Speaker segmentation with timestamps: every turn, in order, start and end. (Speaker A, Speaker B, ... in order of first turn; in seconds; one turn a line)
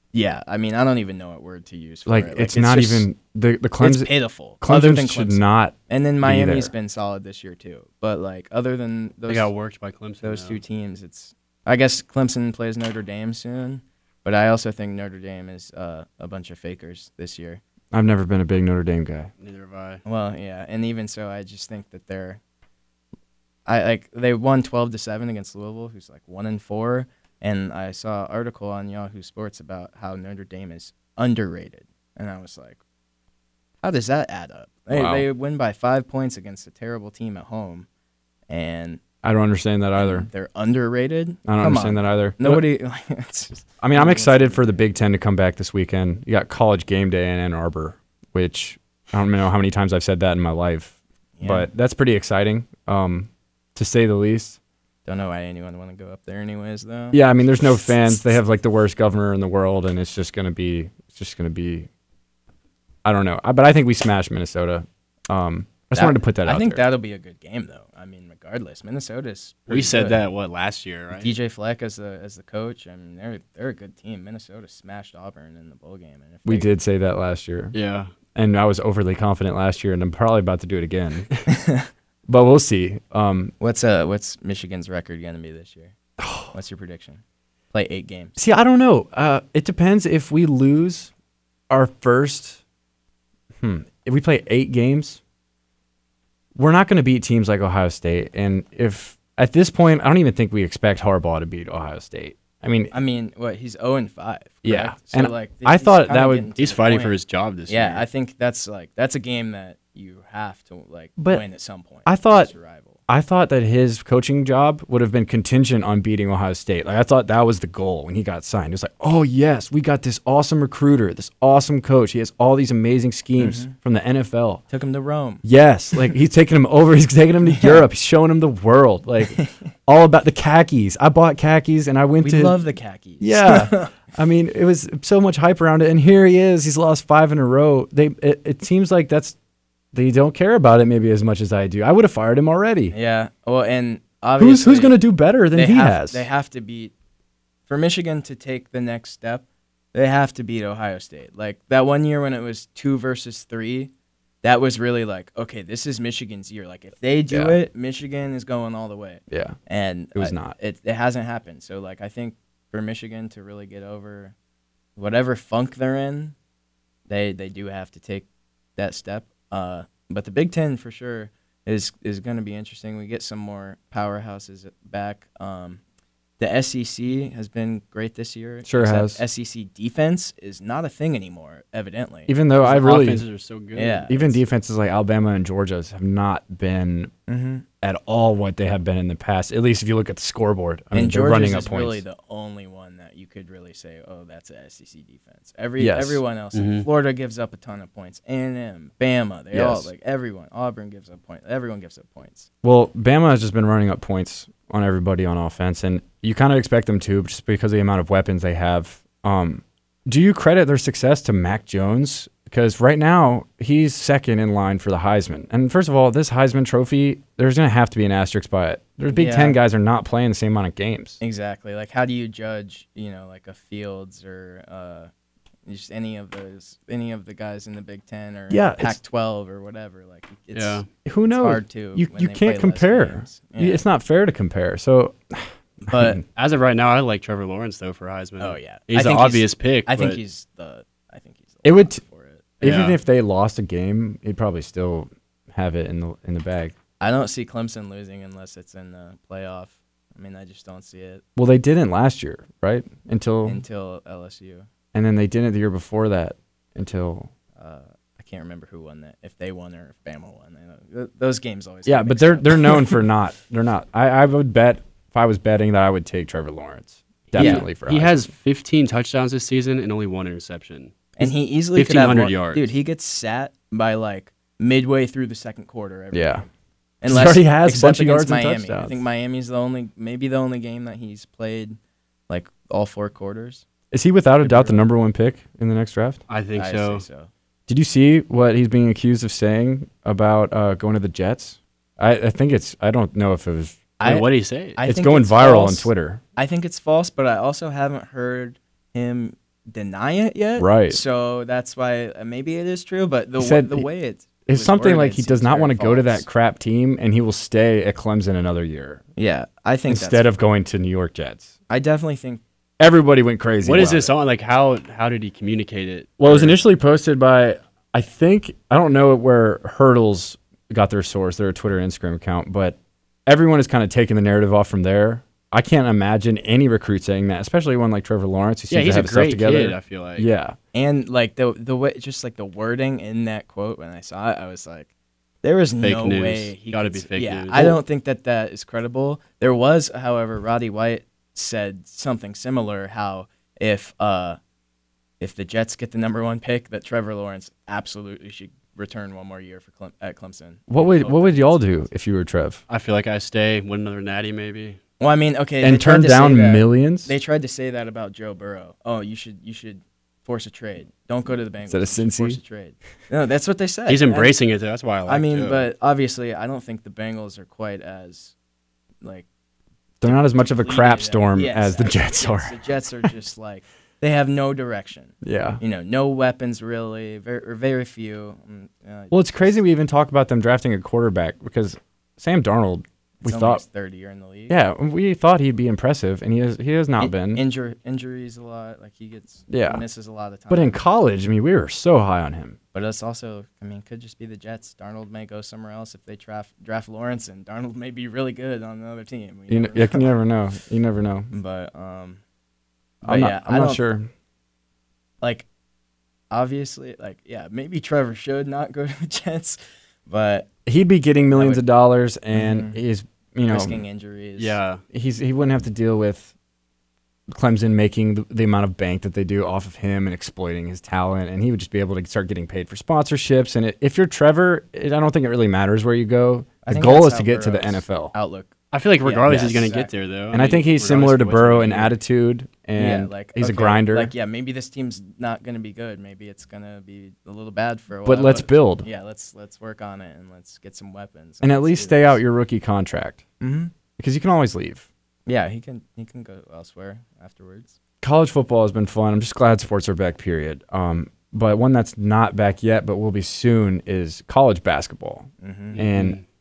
Speaker A: 0.1-3.1
Speaker B: 2.1-6.7
Speaker A: 3.8-9.5
Speaker C: 9.3-10.6
Speaker A: 10.2-17.6
Speaker B: 17.9-19.3
Speaker C: 19.4-20.0
Speaker A: 20.1-22.4
Speaker A: 23.7-32.8
Speaker A: 33.8-37.9
Speaker B: 34.9-35.3
Speaker A: 38.5-39.0
Speaker B: 39.2-40.3
Speaker A: 40.0-44.8
Speaker B: 41.5-42.6
Speaker B: 43.8-54.6
Speaker A: 51.4-51.7
Speaker A: 55.1-57.2
Speaker B: 57.1-61.9
Speaker B: 63.0-66.8
Speaker A: 65.9-70.2
Speaker C: 69.7-71.3
Speaker A: 71.1-76.7
Speaker B: 76.5-77.8
Speaker C: 77.7-78.1
Speaker B: 78.3-81.3
Speaker A: 81.5-81.9
Speaker B: 82.3-83.5
Speaker A: 83.6-85.9
Speaker B: 86.2-86.5
Speaker A: 86.5-87.2
Speaker A: 87.7-88.3
Speaker B: 88.4-91.1
Speaker B: 91.7-92.6
Speaker B: 93.6-95.2
Speaker B: 96.5-102.9
Speaker A: 102.9-107.2
Speaker B: 104.6-106.5
Speaker C: 106.6-108.1
Speaker A: 107.7-113.0
Speaker B: 111.2-111.4
Speaker B: 112.1-112.5
Speaker B: 113.1-124.6
Speaker A: 123.4-123.7
Speaker A: 124.7-125.4
Speaker B: 125.4-132.6
Speaker A: 127.5-127.8
Speaker A: 129.3-129.7
Speaker A: 132.2-133.9
Speaker B: 133.2-139.4
Speaker B: 139.9-142.9
Speaker A: 142.9-145.0
Speaker B: 144.4-146.3
Speaker A: 145.5-146.9
Speaker A: 147.7-153.9
Speaker A: 154.4-164.3
Speaker B: 157.3-157.6
Speaker B: 159.3-159.6
Speaker B: 160.2-160.6
Speaker A: 165.0-166.3
Speaker A: 167.1-168.3
Speaker A: 168.8-175.8
Speaker A: 176.4-182.3
Speaker B: 178.7-179.2
Speaker B: 182.3-183.2
Speaker C: 182.6-184.1
Speaker A: 183.7-184.4
Speaker B: 184.1-187.1
Speaker A: 187.3-187.7
Speaker B: 187.8-192.0
Speaker A: 190.9-202.5
Speaker B: 195.8-196.2
Speaker C: 196.5-196.9
Speaker B: 199.5-199.9
Speaker B: 202.6-221.2
Speaker A: 219.1-219.6
Speaker A: 221.2-225.1
Speaker A: 225.7-233.8
Speaker B: 228.5-229.0
Speaker C: 230.5-230.9
Speaker B: 231.1-236.2
Speaker A: 235.9-236.2
Speaker C: 236.3-240.2
Speaker A: 238.4-242.5
Speaker B: 241.6-242.0
Speaker C: 242.6-243.0
Speaker B: 242.6-246.7
Speaker A: 247.0-251.2
Speaker B: 251.4-253.6
Speaker A: 253.4-254.7
Speaker B: 254.9-257.3
Speaker A: 257.6-263.0
Speaker B: 261.9-268.3
Speaker C: 267.3-272.7
Speaker A: 267.4-267.7
Speaker A: 271.2-276.5
Speaker B: 276.1-276.4
Speaker A: 277.0-281.8
Speaker B: 277.1-279.0
Speaker A: 282.3-283.6
Speaker B: 283.9-286.2
Speaker A: 284.4-284.8
Speaker C: 286.3-287.0
Speaker A: 286.6-287.3
Speaker B: 287.7-293.9
Speaker A: 294.0-306.2
Speaker C: 294.0-294.8
Speaker B: 294.8-296.2
Speaker B: 300.6-301.0
Speaker B: 303.4-303.9
Speaker B: 304.5-309.0
Speaker A: 309.2-310.3
Speaker B: 309.9-311.5
Speaker A: 311.7-312.4
Speaker B: 312.8-314.1
Speaker C: 313.6-316.6
Speaker B: 316.2-330.6
Speaker C: 328.7-330.3
Speaker A: 330.7-334.9
Speaker A: 335.4-344.4
Speaker C: 335.8-337.7
Speaker B: 337.5-337.8
Speaker A: 345.2-351.9
Speaker B: 350.7-352.6
Speaker C: 352.7-354.8
Speaker A: 355.0-364.3
Speaker B: 355.6-357.1
Speaker B: 361.7-362.4
Speaker C: 363.9-365.7
Speaker A: 365.1-368.3
Speaker B: 370.0-372.6
Speaker A: 370.0-379.6
Speaker B: 375.2-375.6
Speaker B: 379.1-383.6
Speaker A: 383.2-384.6
Speaker B: 384.5-387.4
Speaker A: 387.0-390.8
Speaker B: 389.5-389.8
Speaker B: 390.5-392.6
Speaker A: 392.7-400.1
Speaker B: 399.5-401.3
Speaker A: 401.3-402.2
Speaker A: 403.0-403.8
Speaker B: 403.0-404.1
Speaker A: 406.3-410.5
Speaker B: 410.7-413.8
Speaker A: 411.3-411.6
Speaker A: 412.3-412.8
Speaker A: 413.5-414.6
Speaker C: 414.4-414.8
Speaker B: 414.9-416.3
Speaker B: 417.3-428.1
Speaker A: 426.6-428.5
Speaker C: 428.7-431.9
Speaker A: 429.0-429.9
Speaker B: 430.3-434.1
Speaker A: 432.8-442.2
Speaker B: 438.1-438.9
Speaker B: 441.4-443.2
Speaker A: 443.4-443.7
Speaker B: 444.0-444.9
Speaker A: 445.3-447.8
Speaker B: 448.0-456.2
Speaker A: 455.4-455.8
Speaker C: 455.8-456.2